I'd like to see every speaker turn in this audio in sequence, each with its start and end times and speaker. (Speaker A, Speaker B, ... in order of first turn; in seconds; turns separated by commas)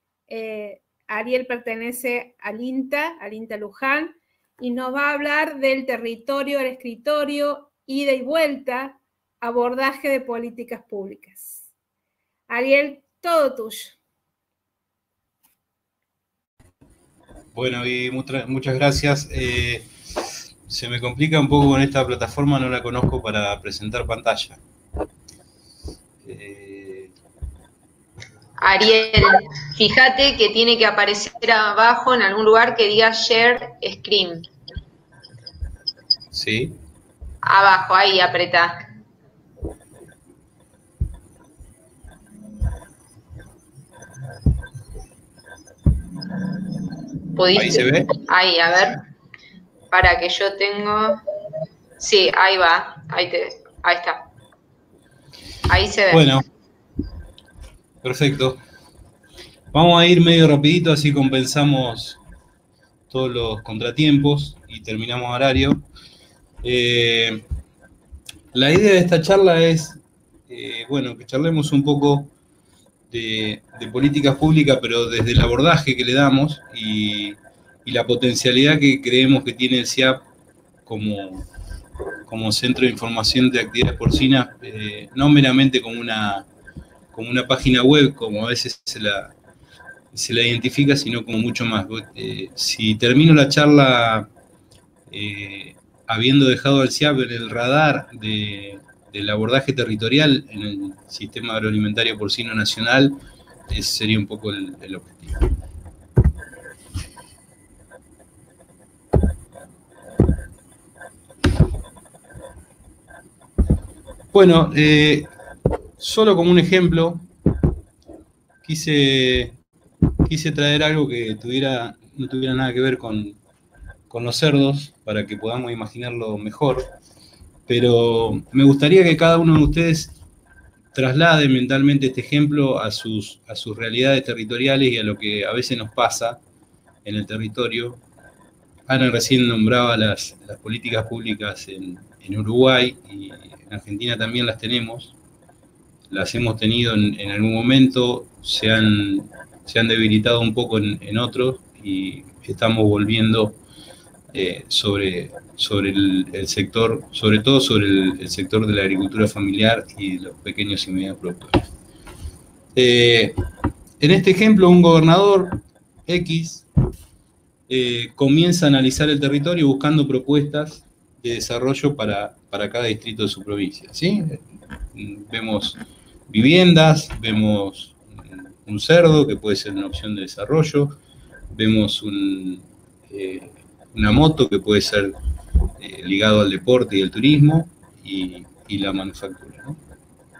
Speaker A: 0.3-11.7, Speaker A: 12.5-14.0, Speaker B: 17.5-19.9, Speaker B: 20.7-24.6, Speaker B: 26.2-27.1, Speaker C: 28.6-34.5, Speaker B: 36.3-36.8, Speaker C: 37.4-38.8, Speaker C: 47.3-49.0, Speaker B: 47.5-48.1, Speaker C: 49.9-51.2, Speaker C: 52.0-54.3, Speaker C: 55.7-56.3, Speaker B: 56.1-56.4, Speaker B: 58.0-58.6, Speaker B: 59.7-62.2, Speaker B: 63.1-65.8, Speaker B: 66.6-67.4, Speaker B: 68.5-72.3, Speaker B: 73.1-80.2, Speaker B: 80.9-81.5, Speaker B: 82.3-86.5, Speaker B: 87.1-89.3, Speaker B: 90.1-94.3, Speaker B: 95.1-105.5, Speaker B: 114.3-115.3, Speaker B: 116.0-117.2, Speaker B: 118.6-119.6, Speaker B: 120.3-123.4, Speaker B: 124.1-126.9, Speaker B: 127.7-130.2, Speaker B: 130.9-136.4, Speaker B: 137.1-138.0, Speaker B: 138.9-145.2, Speaker B: 146.1-153.6, Speaker B: 154.3-161.6, Speaker B: 162.8-163.3, Speaker B: 164.0-166.7, Speaker B: 167.7-174.4, Speaker B: 174.9-178.0, Speaker B: 178.6-181.0, Speaker B: 181.5-185.1, Speaker B: 185.8-189.8